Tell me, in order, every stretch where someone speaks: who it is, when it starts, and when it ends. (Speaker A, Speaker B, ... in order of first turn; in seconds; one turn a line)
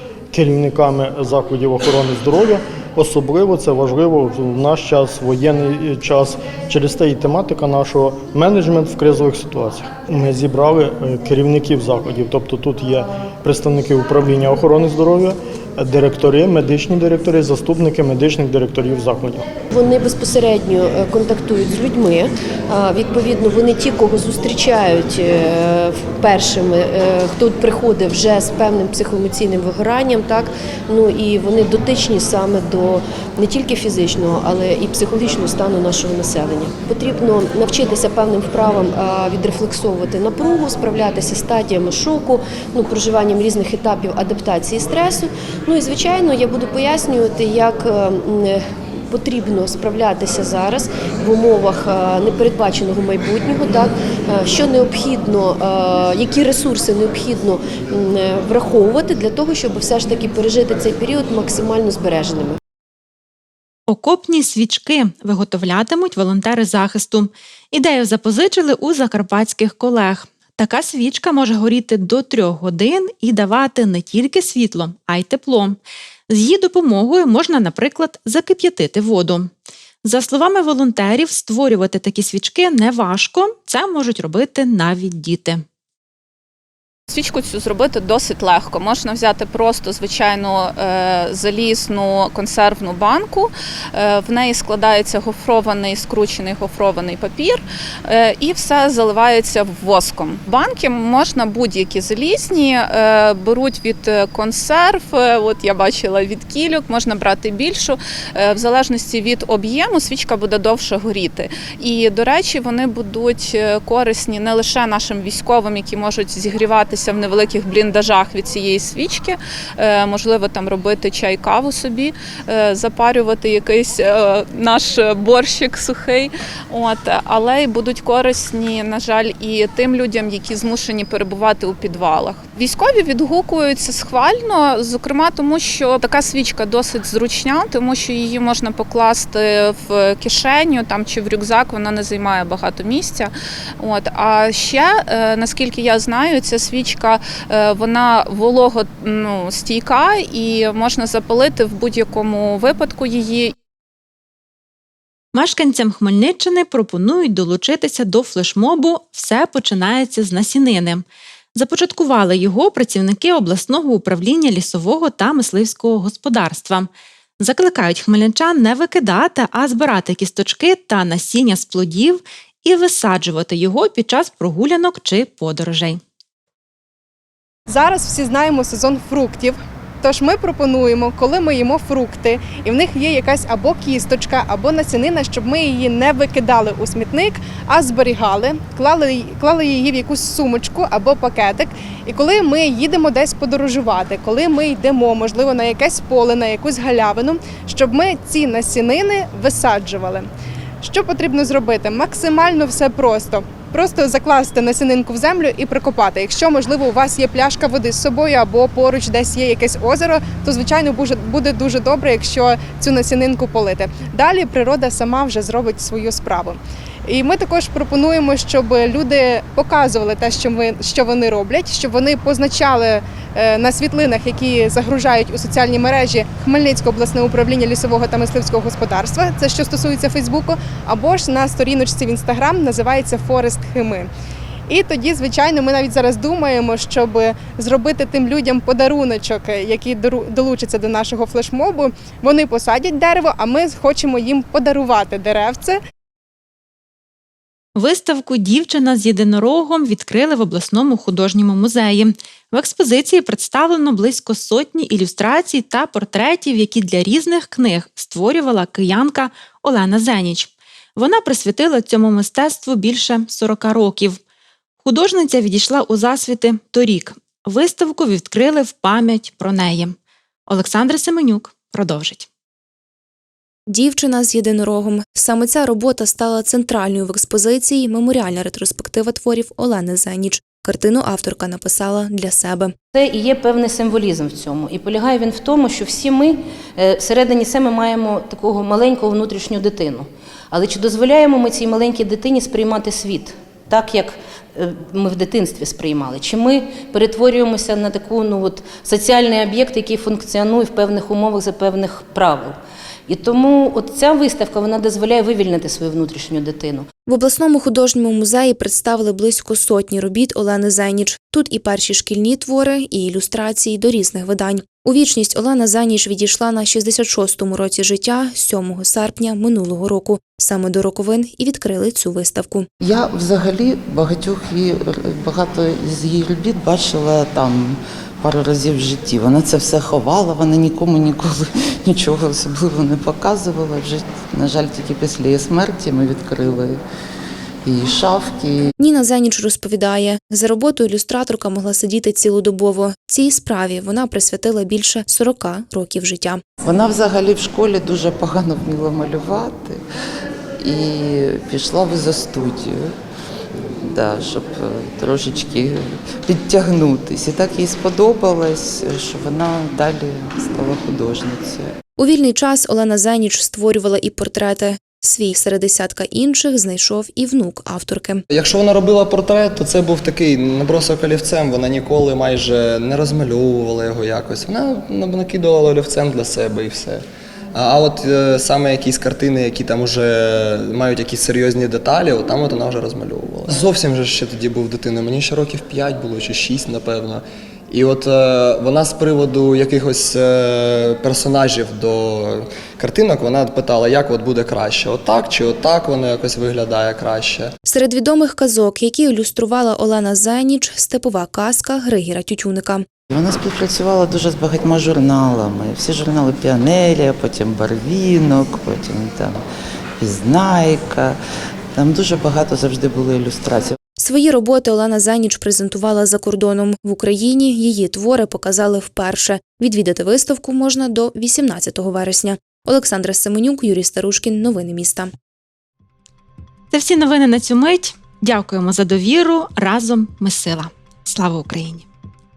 Speaker A: 0.3-19.4
Speaker B: 19.7-62.6
Speaker C: 63.9-75.8
Speaker C: 76.3-79.5
Speaker C: 80.0-85.6
Speaker D: 87.1-153.5
Speaker C: 155.3-161.0
Speaker C: 161.6-166.9
Speaker C: 167.4-176.0
Speaker E: 177.7-200.3
Speaker E: 200.8-234.1
Speaker E: 234.7-245.8
Speaker C: 247.8-264.2
Speaker C: 264.8-269.9
Speaker C: 270.5-272.3
Speaker F: 273.7-282.7
Speaker G: 282.9-302.6
Speaker G: 303.1-306.9
Speaker F: 307.1-322.7
Speaker H: 322.8-336.8
Speaker H: 337.6-338.6
Speaker F: 338.8-346.4
Speaker H: 346.6-349.8
Speaker H: 350.6-352.9
Speaker H: 353.8-361.7
Speaker F: 362.0-368.2
Speaker I: 368.3-397.5
Speaker F: 397.6-402.9
Speaker H: 403.1-409.4
Speaker H: 410.0-411.2
Speaker H: 411.8-413.7
Speaker F: 414.0-425.1
Speaker C: 426.7-431.8